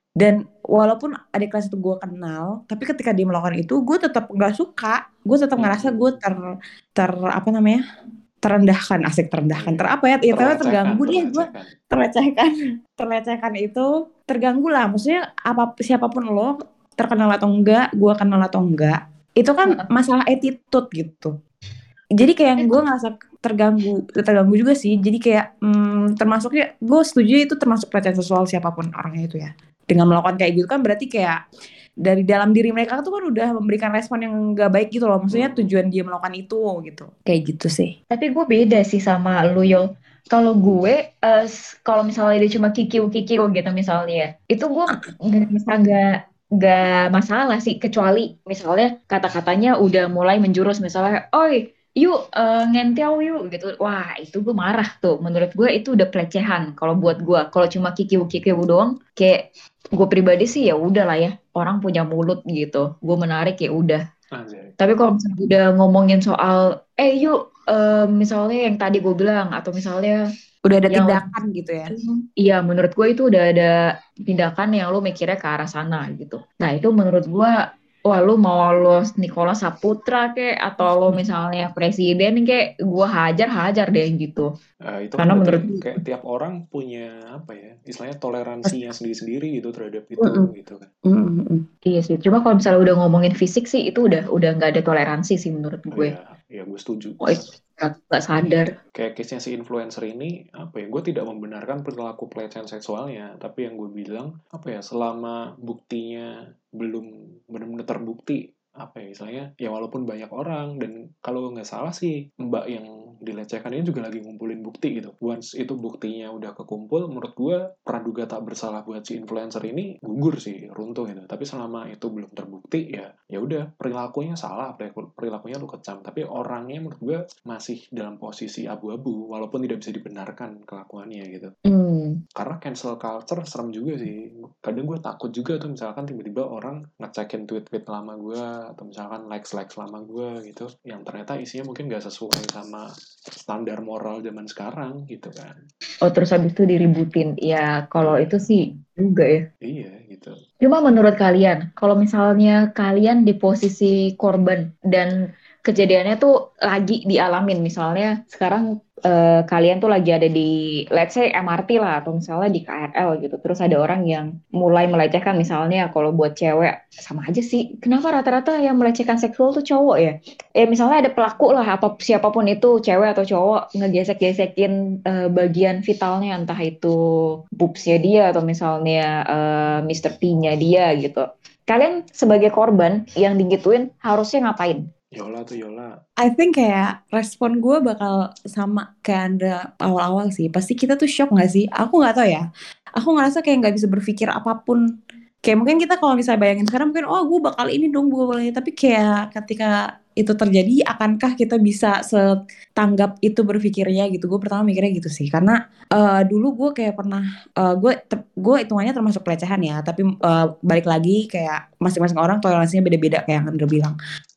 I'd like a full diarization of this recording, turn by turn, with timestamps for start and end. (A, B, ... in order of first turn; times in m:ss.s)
0:00.2-0:06.5 A
0:05.6-0:06.2 B
0:07.0-0:07.8 A
0:08.4-0:21.3 A
0:09.5-0:11.7 B
0:22.2-0:31.4 A
0:32.0-0:37.9 A
0:35.3-0:35.7 B
0:38.1-0:46.1 C
0:46.6-0:59.4 C
1:00.0-1:04.0 C
1:04.4-1:04.8 B
1:04.8-1:10.2 C
1:10.7-1:11.9 A
1:10.9-1:11.2 C
1:11.9-1:13.7 C
1:14.3-1:17.5 C
1:18.1-1:24.5 C
1:24.9-1:30.9 B
1:25.2-1:26.0 C
1:30.2-1:30.5 A
1:31.1-1:31.6 A
1:31.9-1:36.1 C
1:35.9-1:37.5 B
1:37.2-1:38.7 C
1:39.0-1:46.3 B
1:46.8-2:11.5 B
2:11.7-2:12.2 C
2:12.4-2:22.8 B
2:23.4-2:25.6 B
2:26.0-2:29.4 C
2:28.0-2:28.3 B
2:29.6-2:30.3 B
2:30.6-2:35.1 C
2:35.6-2:57.0 C
2:57.6-3:04.8 C
3:05.2-3:05.9 B
3:06.2-3:12.4 A
3:13.0-3:14.8 A
3:15.4-3:22.2 A
3:22.8-3:34.0 A